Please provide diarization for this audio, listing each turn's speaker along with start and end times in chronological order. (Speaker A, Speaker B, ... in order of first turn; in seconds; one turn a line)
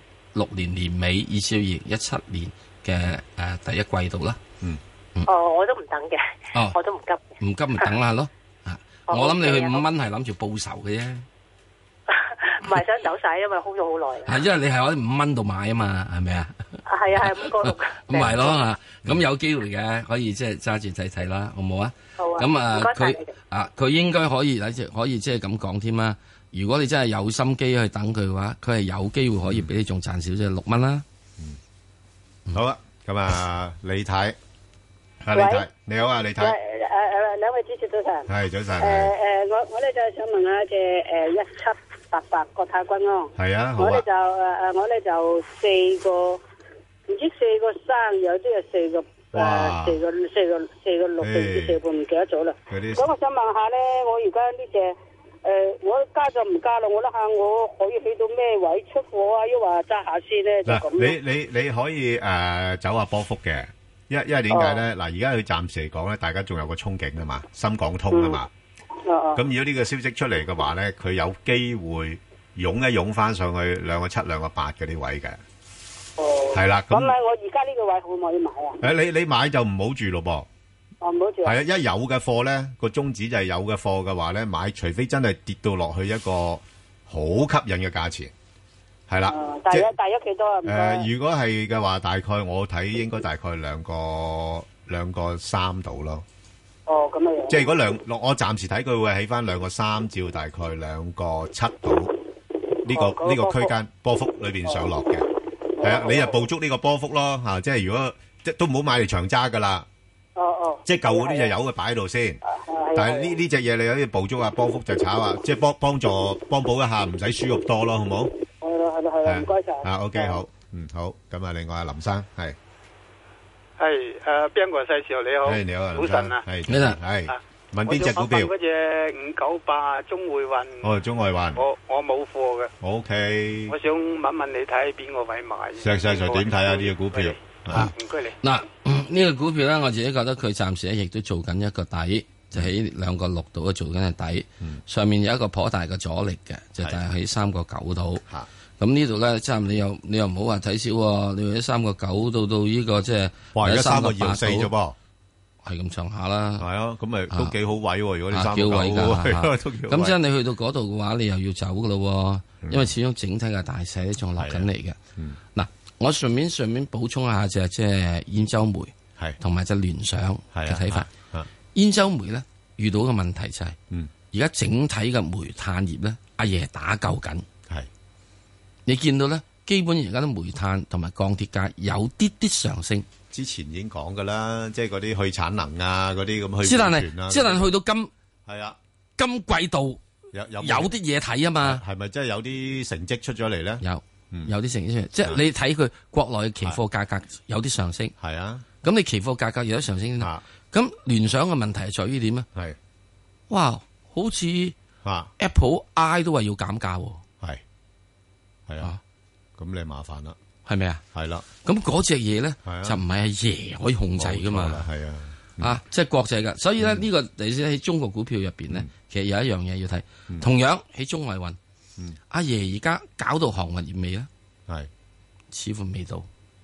Speaker A: 0.3-4.4
Speaker B: 5.2-7.2
Speaker A: 7.4-11.2
Speaker B: 9.1-9.8
Speaker B: 12.1-14.4
Speaker A: 14.2-16.5
Speaker B: 16.9-18.6
Speaker A: 17.2-31.0
Speaker B: 22.2-23.3
Speaker C: 32.5-34.4
Speaker C: 35.2-36.5
Speaker D: 35.3-35.6
Speaker D: 36.4-38.3
Speaker C: 38.3-39.1
Speaker D: 38.8-46.4
Speaker C: 43.4-44.0
Speaker D: 47.1-61.1
Speaker C: 49.3-50.0
Speaker C: 51.2-51.8
Speaker C: 52.7-53.1
Speaker C: 60.6-68.5
Speaker D: 64.5-64.8
Speaker D: 68.1-68.4
Speaker D: 69.0-69.4
Speaker C: 69.3-75.4
Speaker D: 76.2-78.8
Speaker C: 76.5-77.1
Speaker C: 78.8-80.5
Speaker D: 81.0-81.5
Speaker C: 81.4-88.3
Speaker C: 89.1-89.9
Speaker D: 89.3-91.0
Speaker C: 90.6-96.2
Speaker D: 96.9-97.6
Speaker C: 97.5-102.1
Speaker C: 102.8-105.2
Speaker D: 102.9-103.7
Speaker D: 105.8-106.3
Speaker C: 105.8-109.8
Speaker D: 110.3-111.5
Speaker C: 110.8-112.4
Speaker D: 112.5-113.3
Speaker C: 112.9-118.3
Speaker D: 118.6-120.4
Speaker C: 119.2-122.6
Speaker E: 123.8-126.4
Speaker C: 125.4-128.5
Speaker A: 126.7-127.0
Speaker E: 127.3-130.9
Speaker C: 130.8-131.6
Speaker E: 131.5-132.7
Speaker C: 132.8-133.7
Speaker E: 133.7-138.3
Speaker C: 135.8-137.9
Speaker A: 137.7-148.2
Speaker A: 148.8-154.7
Speaker C: 153.5-154.9
Speaker A: 155.6-156.6
Speaker C: 156.6-160.2
Speaker A: 158.3-165.0
Speaker C: 162.6-162.9
Speaker C: 164.4-165.4
Speaker A: 165.5-171.1
Speaker C: 170.5-171.5
Speaker A: 171.7-173.8
Speaker A: 174.3-177.4
Speaker A: 178.8-183.1
Speaker C: 183.3-187.7
Speaker A: 186.6-188.1
Speaker C: 188.5-188.8
Speaker A: 189.2-190.0
Speaker C: 190.3-190.9
Speaker A: 190.6-191.8
Speaker C: 191.6-194.5
Speaker A: 193.8-198.1
Speaker C: 198.2-198.6
Speaker A: 198.8-202.5
Speaker A: 203.5-204.7
Speaker C: 205.0-205.3
Speaker A: 205.4-207.2
Speaker C: 208.7-208.9
Speaker C: 209.6-210.4
Speaker A: 210.6-211.0
Speaker C: 211.1-211.4
Speaker A: 211.6-214.9
Speaker C: 212.6-213.0
Speaker C: 214.2-215.8
Speaker A: 215.6-221.6
Speaker A: 222.3-224.3
Speaker A: 225.5-226.3